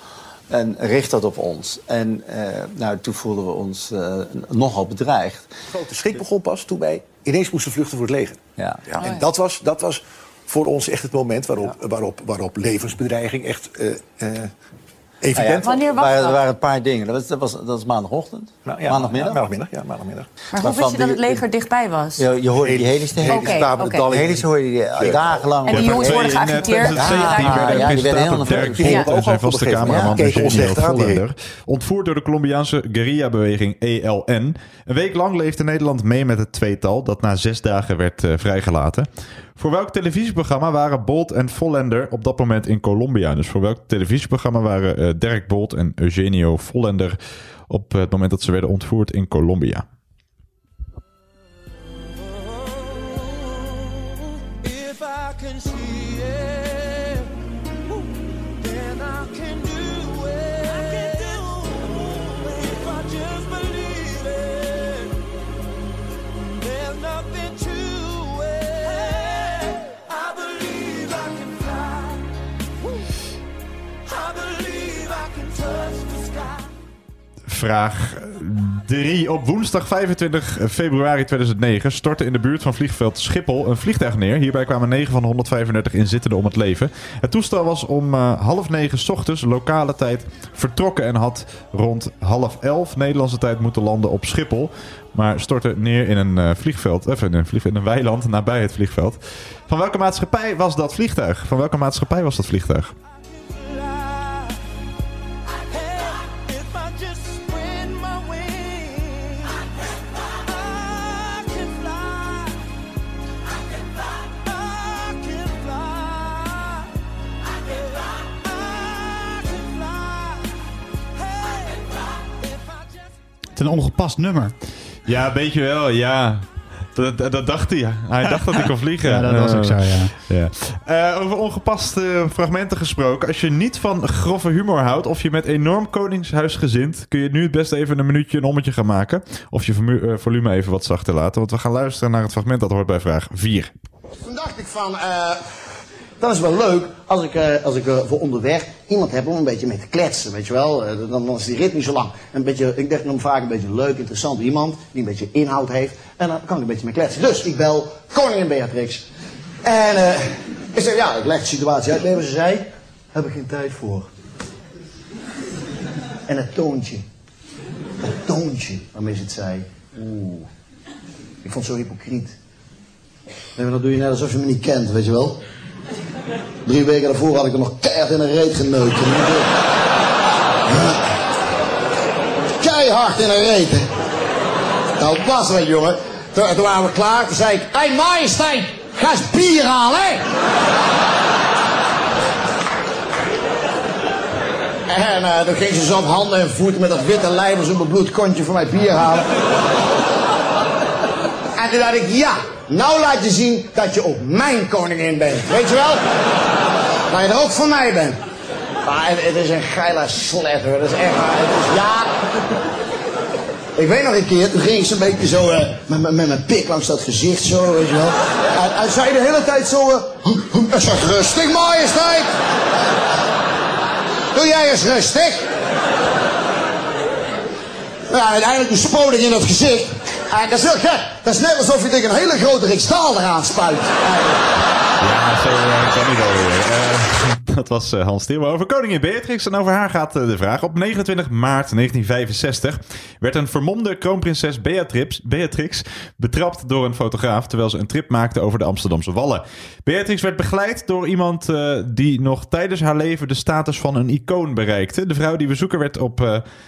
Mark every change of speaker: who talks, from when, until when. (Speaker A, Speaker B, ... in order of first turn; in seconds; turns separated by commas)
Speaker A: 0.5-5.6, Speaker B: 5.7-14.5, Speaker A: 8.6-9.0, Speaker B: 15.2-15.8, Speaker A: 15.3-19.5, Speaker C: 15.7-16.4, Speaker B: 18.6-20.3, Speaker C: 20.5-22.3, Speaker A: 20.6-21.4, Speaker A: 22.2-26.1, Speaker B: 22.6-25.6, Speaker C: 23.3-24.3, Speaker C: 25.6-28.1, Speaker D: 25.8-47.2, Speaker A: 27.0-30.7, Speaker B: 28.5-31.2, Speaker C: 28.8-29.2, Speaker D: 47.7-49.9, Speaker D: 77.5-102.9, Speaker E: 123.5-124.5, Speaker D: 125.0-143.7, Speaker E: 128.6-130.1, Speaker F: 144.2-145.4, Speaker F: 146.2-159.1, Speaker F: 159.6-164.1, Speaker F: 166.3-167.0, Speaker F: 168.2-170.5, Speaker F: 171.4-172.3, Speaker F: 173.6-175.4, Speaker F: 176.7-179.5, Speaker F: 180.7-181.0, Speaker F: 182.6-183.9, Speaker F: 185.0-190.3, Speaker F: 194.9-199.4, Speaker F: 201.6-206.1, Speaker F: 207.1-208.2, Speaker F: 208.8-212.2, Speaker F: 213.8-222.3, Speaker F: 224.3-225.4, Speaker F: 228.1-234.0, Speaker D: 235.0-256.4